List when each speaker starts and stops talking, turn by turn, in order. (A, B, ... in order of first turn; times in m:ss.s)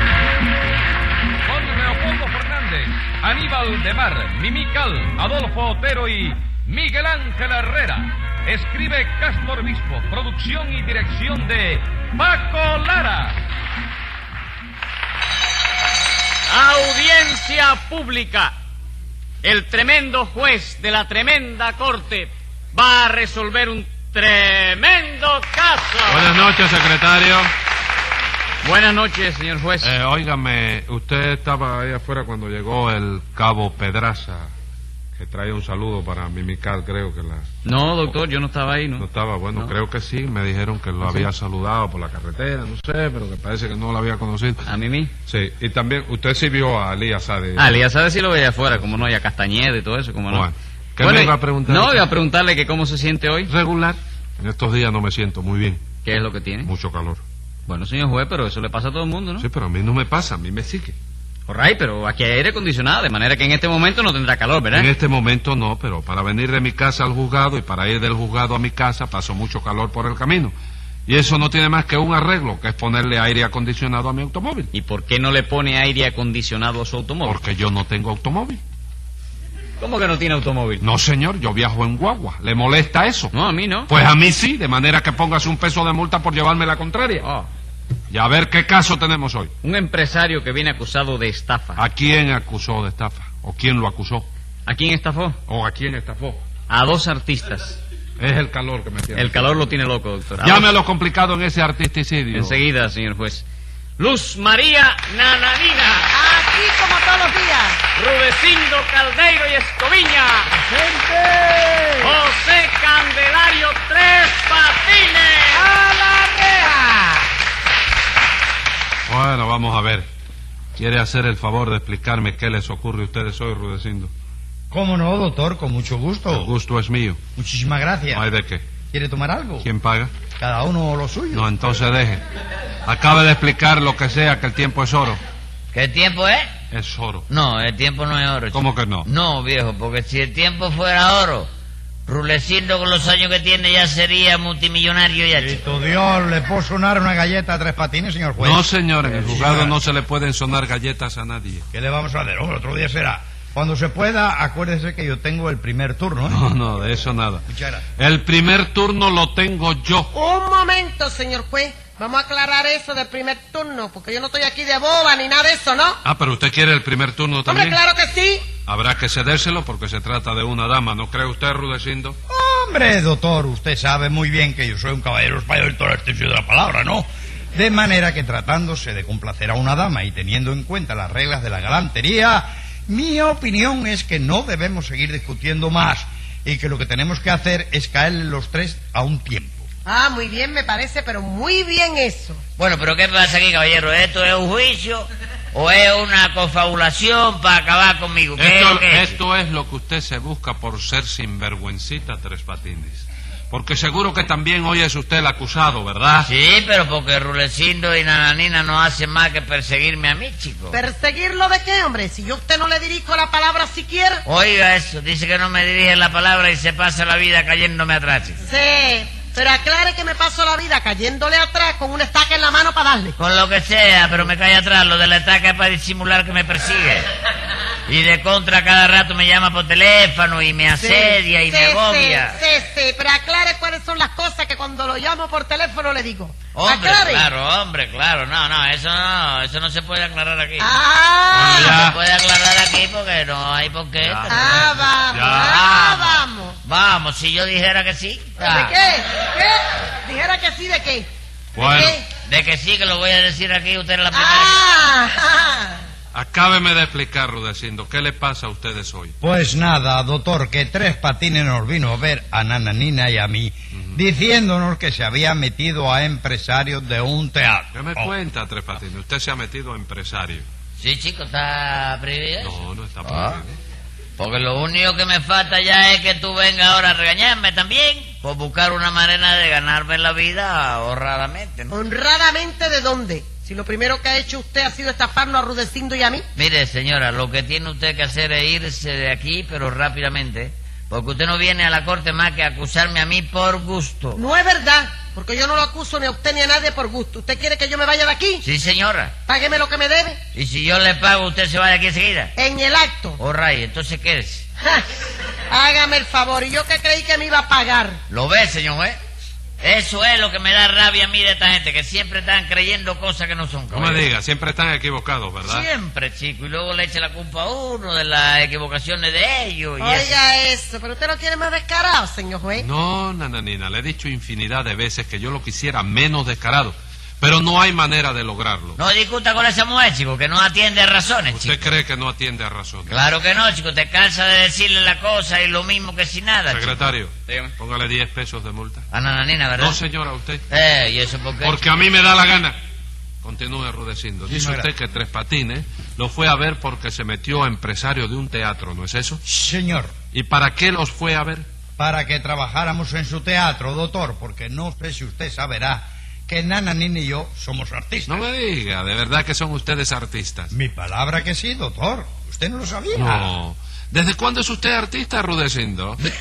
0:01.4-0:13.4 A
0:16.5-0:18.6 B
0:19.4-0:26.3 B
0:26.0-0:27.5 C
0:28.6-0:30.0 B
0:29.8-0:34.5 C
0:35.2-0:37.5 C
0:37.6-0:39.7 B
0:39.0-0:44.7 C
0:41.0-0:41.3 B
0:44.6-0:45.1 B
0:45.2-0:47.8 C
0:47.6-0:53.5 B
0:50.3-0:52.1 C
0:53.5-0:55.8 C
0:56.0-0:56.7 B
0:56.6-0:57.2 C
0:57.7-0:59.4 B
0:59.4-1:00.9 C
1:01.5-1:04.9 B
1:04.7-1:10.5 C
1:11.0-1:14.7 C
1:14.7-1:17.4 B
1:17.2-1:18.6 C
1:19.8-1:20.8 B
1:20.8-1:23.3 C
1:23.3-1:23.9 B
1:23.9-1:27.3 C
1:27.2-1:27.5 B
1:28.1-1:29.5 C
1:29.6-1:31.8 B
1:31.8-1:34.3 C
1:34.6-1:35.4 B
1:35.5-1:36.4 C
1:36.7-1:37.8 B
1:38.2-1:39.5 C
1:39.1-1:40.7 B
1:40.4-1:42.6 C
1:42.3-1:43.4 B
1:44.0-1:46.1 B
1:46.1-1:47.8 D
1:48.0-1:57.1 B
1:59.1-2:00.1 C
2:00.8-2:04.1 C
2:04.7-2:06.5 E
2:06.3-2:07.2 C
2:07.4-2:08.2 E
2:08.1-2:08.6 C
2:08.9-2:09.7 E
2:09.6-2:10.1 C
2:10.4-2:11.4 E
2:11.3-2:12.2 C
2:12.8-2:15.2 C
2:15.7-2:16.5 F
2:16.7-2:17.3 C
2:17.3-2:21.5 F
2:18.5-2:19.1 C
2:22.0-2:25.6 F
2:25.4-2:29.8 E
2:28.4-2:31.6 C
2:31.7-2:36.4 E
2:36.3-2:37.4 C
2:37.5-2:37.8 E
2:38.0-2:40.1 C
2:40.1-2:46.0 D
2:46.0-2:47.8 C
2:47.4-2:48.5 D
2:48.6-2:52.2 C
2:52.3-3:09.6 E
3:09.8-3:12.4 D
3:12.6-3:19.2 F
3:18.4-3:26.3 C
3:26.2-3:30.8 F
3:30.7-3:34.2 D
3:34.2-3:38.4 F
3:38.4-3:43.2 D
3:43.2-3:47.1 F
3:47.9-3:52.4 F
3:50.8-3:57.3 D
3:56.5-4:00.7 F
4:00.6-4:01.8 D
4:01.3-4:02.0 C
4:01.4-4:04.7 F
4:04.0-4:05.6 C
4:04.3-4:06.6 D
4:05.4-4:08.7 F
4:08.4-4:12.0 D
4:11.5-4:12.0 C
4:12.2-4:14.6 F
4:14.1-4:15.8 D
4:16.1-4:19.1 C
4:19.2-4:28.1 E
4:27.7-4:30.4 C
4:30.8-4:33.4 F
4:32.4-4:33.6 C
4:34.2-4:41.7 F
4:41.7-4:46.2 D
4:46.3-4:54.2 F
4:54.1-4:58.4 D
4:58.4-4:59.1 F
4:59.2-5:00.2 D
5:00.3-5:02.3 F
5:02.4-5:03.2 D
5:03.2-5:04.5 F
5:05.5-5:08.0 D
5:08.1-5:09.0 F
5:09.6-5:14.1 F
5:13.7-5:15.7 C
5:15.4-5:20.1 F
5:19.8-5:22.7 D
5:22.6-5:28.8 C
5:28.8-5:31.8 F
5:31.3-5:32.9 C
5:32.9-5:36.8 F
5:36.5-5:38.9 C
5:37.3-5:37.5 B
5:38.9-5:39.8 F
5:39.6-5:40.4 C
5:40.5-5:41.7 F
5:41.4-5:42.6 C
5:43.2-5:49.2 C
5:44.3-5:44.7 E
5:49.3-5:49.9 E
5:50.1-5:51.5 C
5:51.8-5:58.2 E
5:58.0-6:00.5 C
6:00.5-6:03.3 E
6:02.9-6:06.0 C